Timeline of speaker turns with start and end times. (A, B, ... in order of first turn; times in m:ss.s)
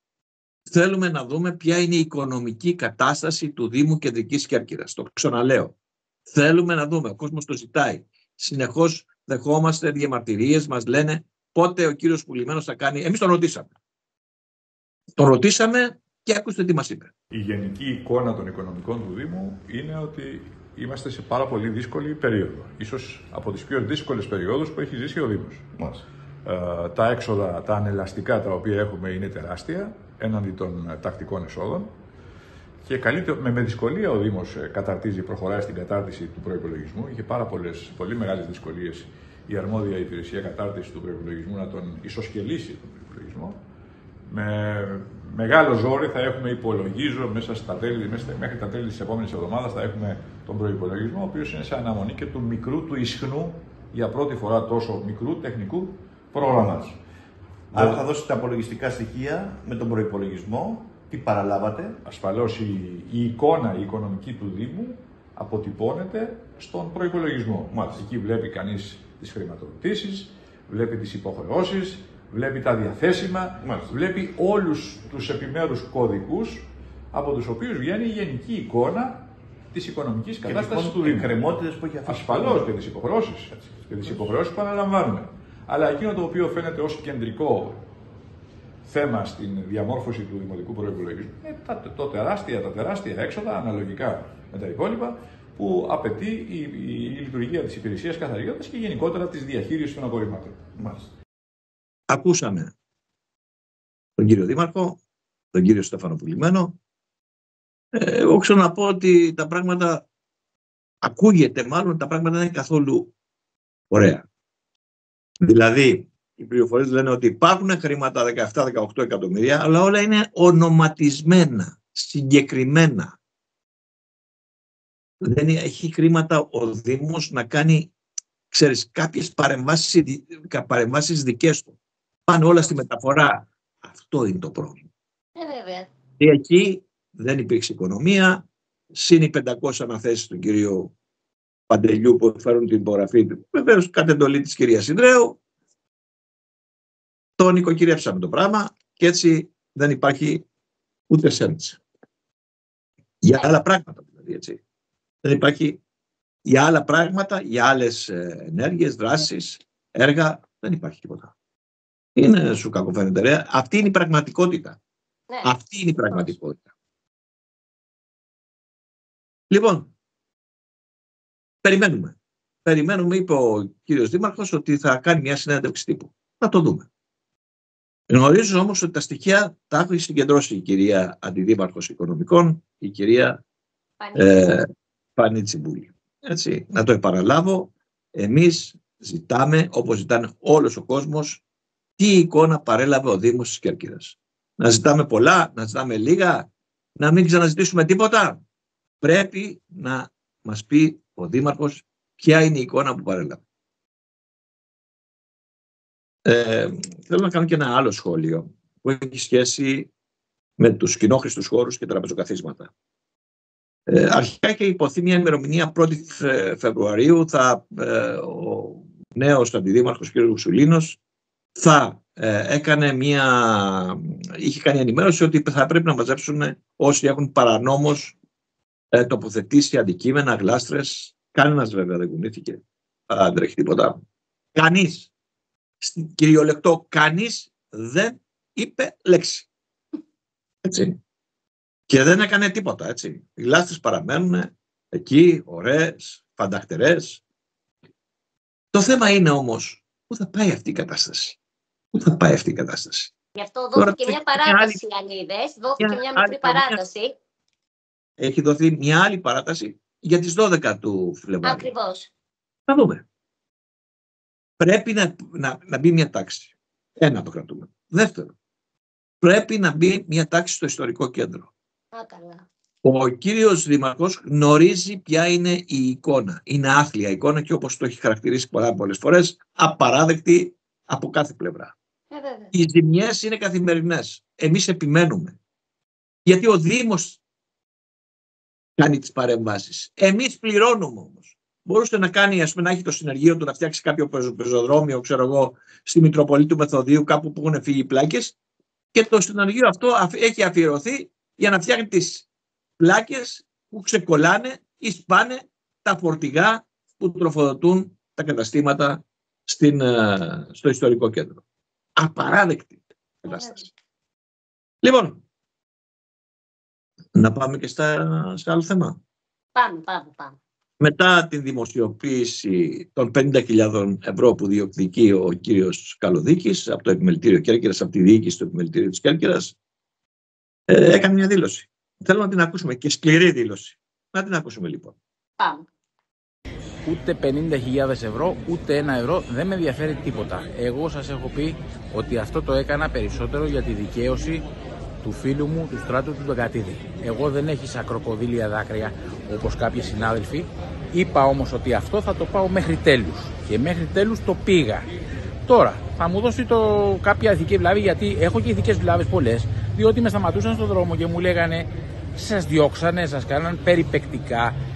0:00.6-0:05.7 A
0:06.3-0:13.7 A
0:15.2-0:17.1 A
0:17.3-0:31.9 B
0:32.8-0:43.6 B
0:44.3-0:57.0 B
0:56.5-0:56.8 C
0:57.7-0:58.0 B
0:57.7-1:02.0 C
1:02.0-1:27.8 B
1:13.6-1:13.9 C
1:20.4-1:22.8 C
1:28.8-1:41.0 B
1:42.1-1:42.7 A
1:44.2-1:45.0 A
1:45.5-1:46.8 A
1:47.9-1:50.0 A
1:51.0-1:53.1 A
1:53.9-1:54.2 A
1:55.4-2:03.2 A
2:05.2-2:07.9 A
2:08.5-2:11.8 A
2:12.3-2:14.9 A
2:15.5-2:15.8 D
2:16.2-2:20.9 A
2:21.7-2:25.4 A
2:27.4-2:30.4 A
2:31.1-2:31.8 A
2:33.2-2:34.6 A
2:35.2-2:35.8 A
2:36.4-2:41.3 A
2:42.2-2:44.8 A
2:45.4-2:46.7 A
2:49.5-2:49.9 A
2:51.6-2:56.9 A
2:58.1-3:03.4 A
3:04.0-3:04.3 D
3:04.1-3:11.4 A
3:12.0-3:18.4 A
3:19.0-3:23.4 A
3:26.2-3:29.9 A
3:30.6-3:32.7 A
3:33.9-3:41.0 A
3:41.6-3:48.2 A
3:48.9-3:54.0 A
3:54.5-3:55.1 A
3:55.8-3:59.5 A
4:00.6-4:01.0 A
4:01.9-4:07.2 A
4:08.7-4:11.4 A
4:11.9-4:13.1 A
4:13.4-4:17.1 D
4:13.7-4:14.8 A
4:15.8-4:16.8 A
4:18.2-4:21.7 A
4:21.4-4:22.1 D
4:22.7-4:23.0 A
4:24.6-4:28.3 A
4:29.2-4:31.5 A
4:32.0-4:32.4 D
4:32.8-4:41.7 A
4:42.5-4:45.4 A
4:46.2-4:47.2 A
4:48.8-4:58.4 A
4:58.9-5:02.2 A
5:02.8-5:11.4 A
5:12.0-5:13.6 A
5:14.8-5:15.2 A
5:17.1-5:19.0 A
5:19.6-5:20.2 D
5:20.8-5:29.5 A
5:30.7-5:35.0 A
5:36.8-5:44.4 E
5:45.0-5:54.9 E
5:55.4-6:04.6 E